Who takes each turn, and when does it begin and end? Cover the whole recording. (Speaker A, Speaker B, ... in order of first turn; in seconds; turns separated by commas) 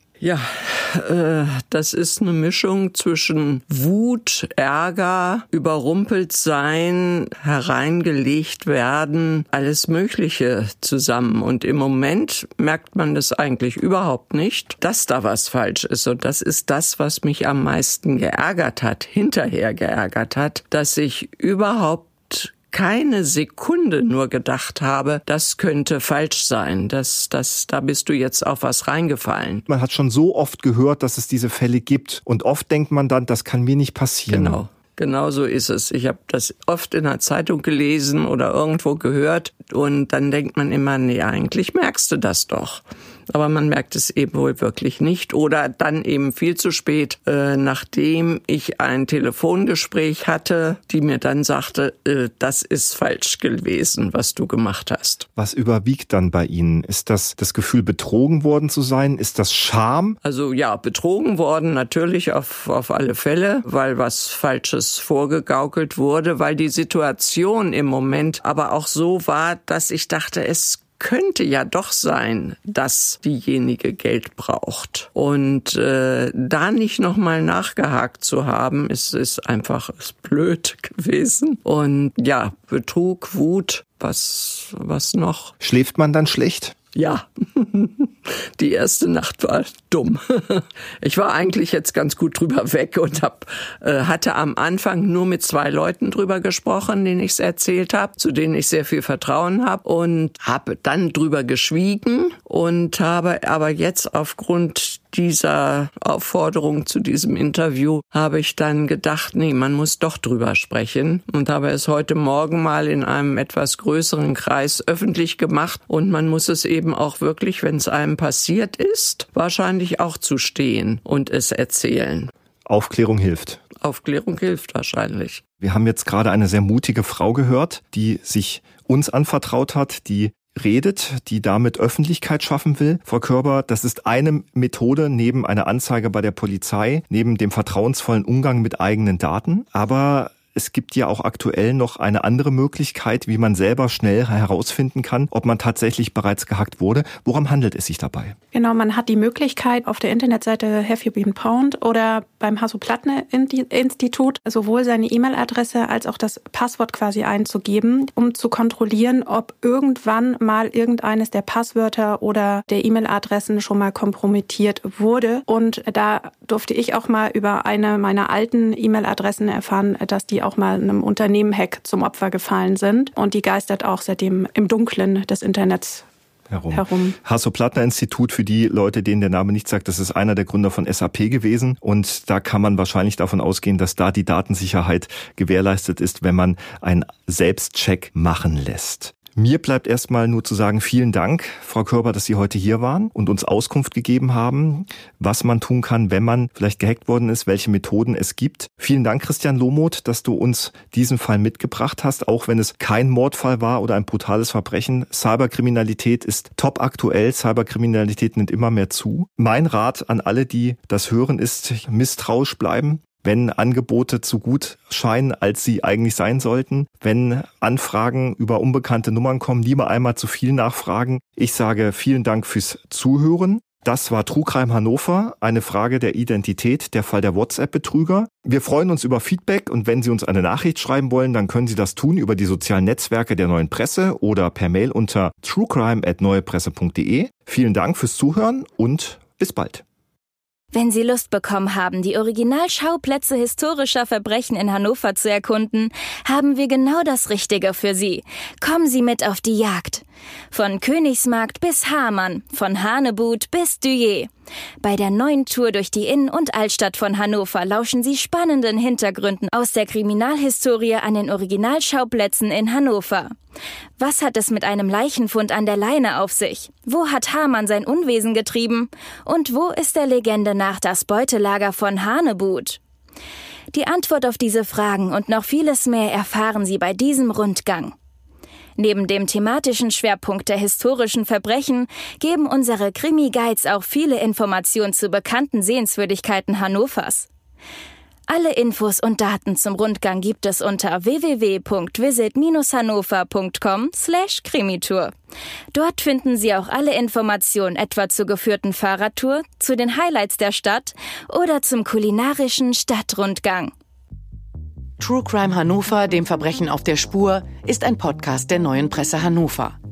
Speaker A: 0.2-29.6, Speaker B: 29.7-34.6, Speaker A: 34.3-55.3, Speaker B: 55.4-60.2, Speaker A: 60.2-85.5, Speaker B: 85.6-86.8, Speaker A: 87.0-122.3, Speaker B: 122.7-123.6, Speaker A: 123.8-125.4, Speaker B: 125.6-148.4, Speaker C: 148.5-176.1, Speaker B: 176.5-239.8, Speaker C: 176.7-177.2, Speaker D: 240.7-254.3, Speaker D: 254.8-263.3, Speaker D: 264.0-272.8, Speaker D: 273.7-277.9, Speaker D: 278.8-287.3, Speaker D: 288.3-295.1, Speaker D: 295.7-303.7, Speaker E: 305.0-309.8